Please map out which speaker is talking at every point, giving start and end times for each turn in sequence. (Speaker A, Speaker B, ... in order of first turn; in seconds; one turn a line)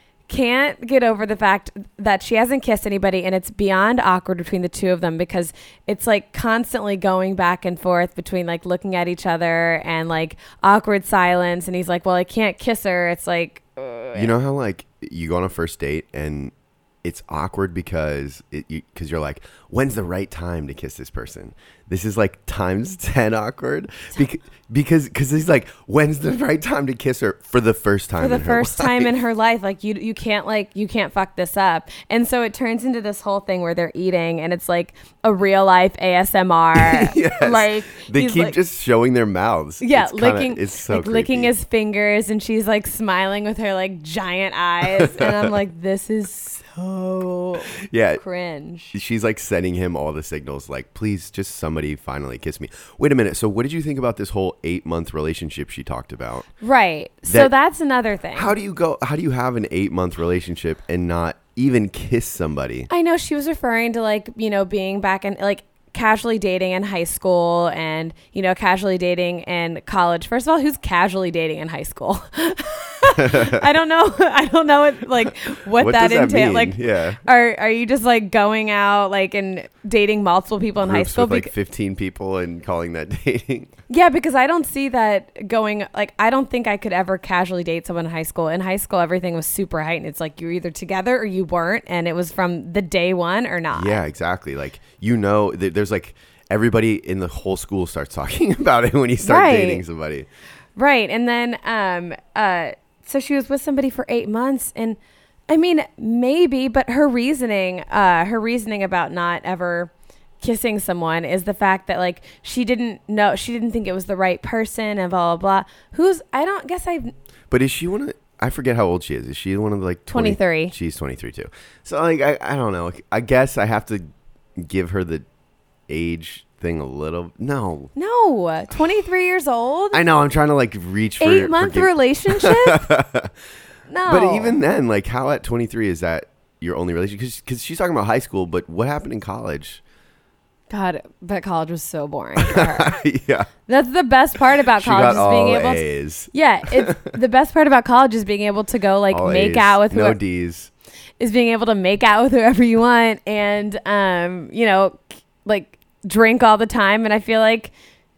Speaker A: 0.3-14.3
Speaker B: 14.1-16.5
Speaker B: 17.0-29.1
Speaker A: 28.2-38.6
Speaker B: 36.7-41.5
Speaker A: 39.8-48.9
Speaker B: 44.9-45.5
Speaker B: 47.8-48.2
Speaker B: 48.9-56.5
Speaker A: 56.6-58.5
Speaker B: 58.3-62.9
Speaker A: 62.9-81.5
Speaker B: 73.2-73.7
Speaker B: 75.8-77.2
Speaker B: 80.8-83.7
Speaker A: 83.9-94.0
Speaker B: 93.7-100.3
Speaker A: 99.2-99.8
Speaker A: 100.8-105.0
Speaker A: 105.5-117.1
Speaker B: 117.5-125.2
Speaker A: 120.1-120.7
Speaker B: 125.9-127.9
Speaker A: 127.9-130.0
Speaker B: 129.9-133.3
Speaker A: 131.2-132.9
Speaker A: 133.9-134.6
Speaker B: 134.0-139.8
Speaker A: 140.7-142.9
Speaker B: 142.4-143.5
Speaker A: 143.7-150.2
Speaker B: 144.8-147.1
Speaker B: 149.1-150.7
Speaker A: 151.2-157.7